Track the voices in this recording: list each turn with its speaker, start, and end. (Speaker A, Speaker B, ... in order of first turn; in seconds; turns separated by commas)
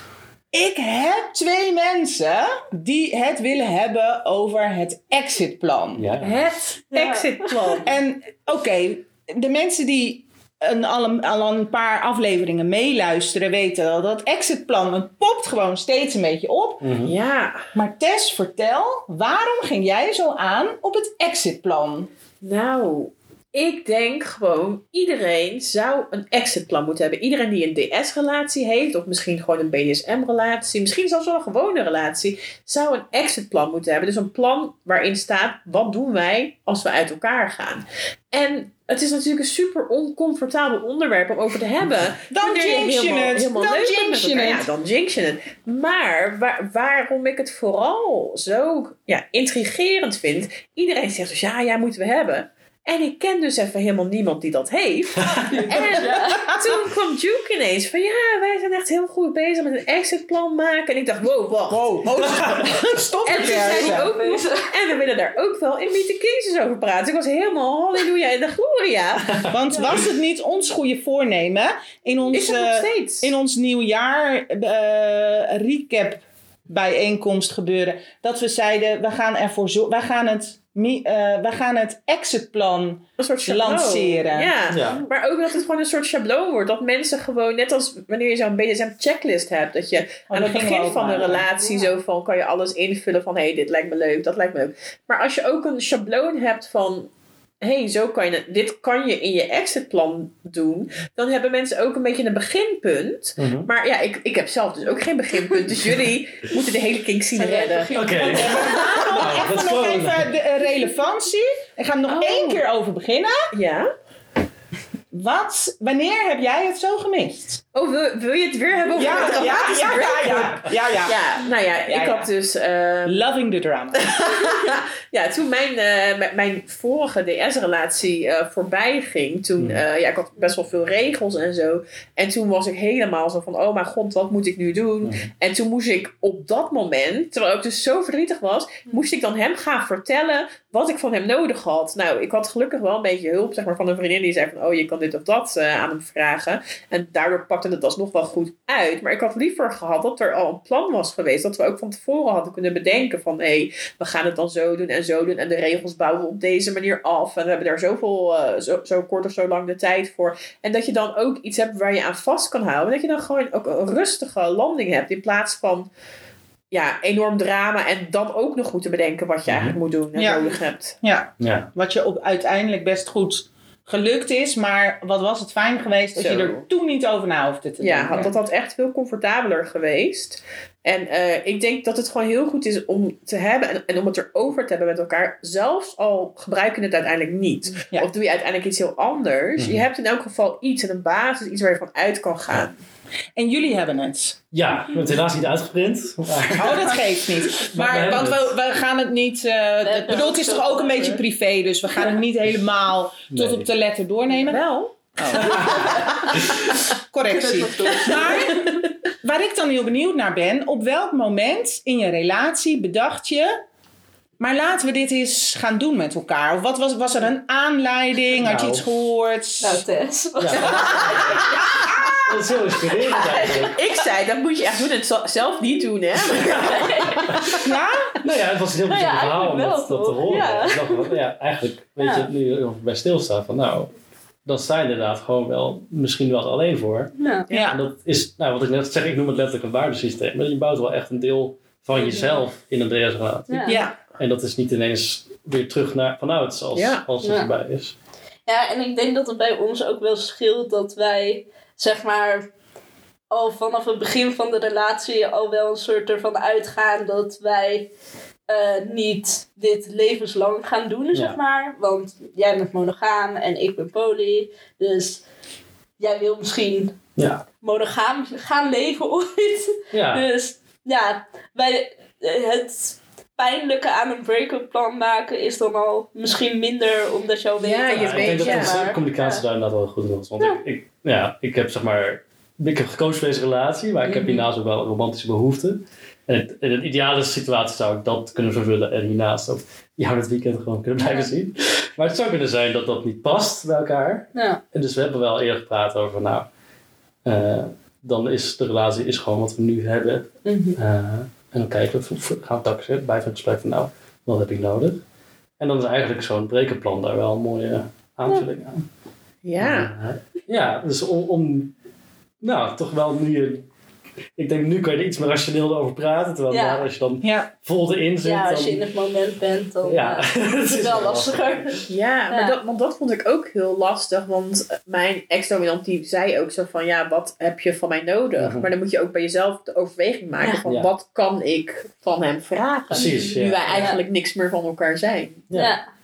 Speaker A: 0.5-16.9, Speaker B: 6.0-6.4, Speaker C: 6.9-7.8, Speaker D: 6.9-7.8, Speaker B: 16.8-17.1, Speaker C: 17.0-17.6, Speaker A: 17.7-22.1, Speaker C: 22.4-61.9, Speaker A: 42.3-44.7, Speaker D: 55.5-56.4, Speaker A: 56.4-56.8, Speaker A: 61.7-64.1, Speaker C: 63.2-69.8, Speaker D: 63.5-64.7, Speaker A: 69.5-84.5, Speaker C: 72.3-73.3, Speaker C: 83.2-97.1, Speaker B: 84.7-85.0, Speaker A: 90.3-91.5, Speaker D: 91.6-91.9, Speaker C: 97.6-108.0, Speaker B: 103.4-103.7, Speaker D: 107.3-109.0, Speaker B: 107.9-110.3, Speaker A: 108.2-113.5, Speaker C: 112.1-112.6, Speaker C: 113.5-113.9, Speaker A: 115.1-117.6, Speaker C: 117.7-123.2, Speaker A: 118.9-121.2, Speaker A: 121.9-122.3, Speaker A: 123.0-124.1, Speaker C: 124.0-165.9, Speaker B: 135.0-135.3, Speaker C: 166.7-171.0, Speaker B: 169.4-169.8, Speaker A: 170.2-178.3, Speaker B: 171.4-171.7, Speaker C: 176.2-176.6, Speaker C: 177.8-192.8, Speaker B: 189.6-189.8, Speaker A: 193.3-194.4, Speaker B: 194.5-198.5, Speaker A: 196.5-204.6, Speaker D: 199.8-201.2, Speaker B: 203.3-203.7, Speaker C: 204.4-205.6, Speaker A: 205.2-213.6, Speaker B: 205.5-205.8, Speaker D: 207.2-208.7, Speaker A: 214.4-219.8, Speaker B: 218.4-218.8, Speaker D: 219.6-221.7, Speaker B: 220.4-221.6, Speaker C: 220.6-221.2, Speaker B: 222.2-223.8, Speaker D: 223.1-223.7, Speaker C: 223.4-227.7, Speaker D: 226.5-227.3, Speaker B: 227.3-227.6, Speaker A: 227.6-228.1, Speaker B: 228.2-233.9, Speaker D: 228.9-231.2, Speaker D: 232.0-232.3, Speaker B: 234.4-237.1, Speaker D: 237.2-237.5, Speaker A: 237.5-237.8, Speaker B: 237.7-247.9, Speaker D: 241.9-242.4, Speaker D: 243.5-243.8, Speaker A: 243.7-243.9, Speaker C: 246.7-247.0, Speaker D: 247.2-247.5, Speaker D: 248.4-252.5, Speaker D: 253.3-257.9, Speaker D: 258.5-265.2, Speaker D: 266.0-266.9, Speaker B: 267.2-267.4, Speaker D: 267.6-279.4, Speaker B: 269.9-270.2, Speaker C: 277.6-278.8, Speaker B: 277.9-296.5, Speaker D: 284.0-284.5, Speaker D: 291.0-291.3, Speaker D: 294.3-294.6, Speaker B: 297.2-305.0, Speaker D: 300.4-300.8, Speaker B: 305.6-308.8, Speaker C: 309.4-309.9, Speaker B: 309.6-311.7, Speaker B: 312.4-313.7, Speaker B: 314.4-318.8, Speaker D: 316.5-316.9, Speaker A: 317.2-317.5, Speaker D: 318.2-322.6, Speaker B: 319.8-321.8, Speaker C: 321.9-335.4, Speaker B: 328.4-328.7, Speaker B: 332.9-333.9, Speaker D: 332.9-334.0, Speaker D: 335.5-335.8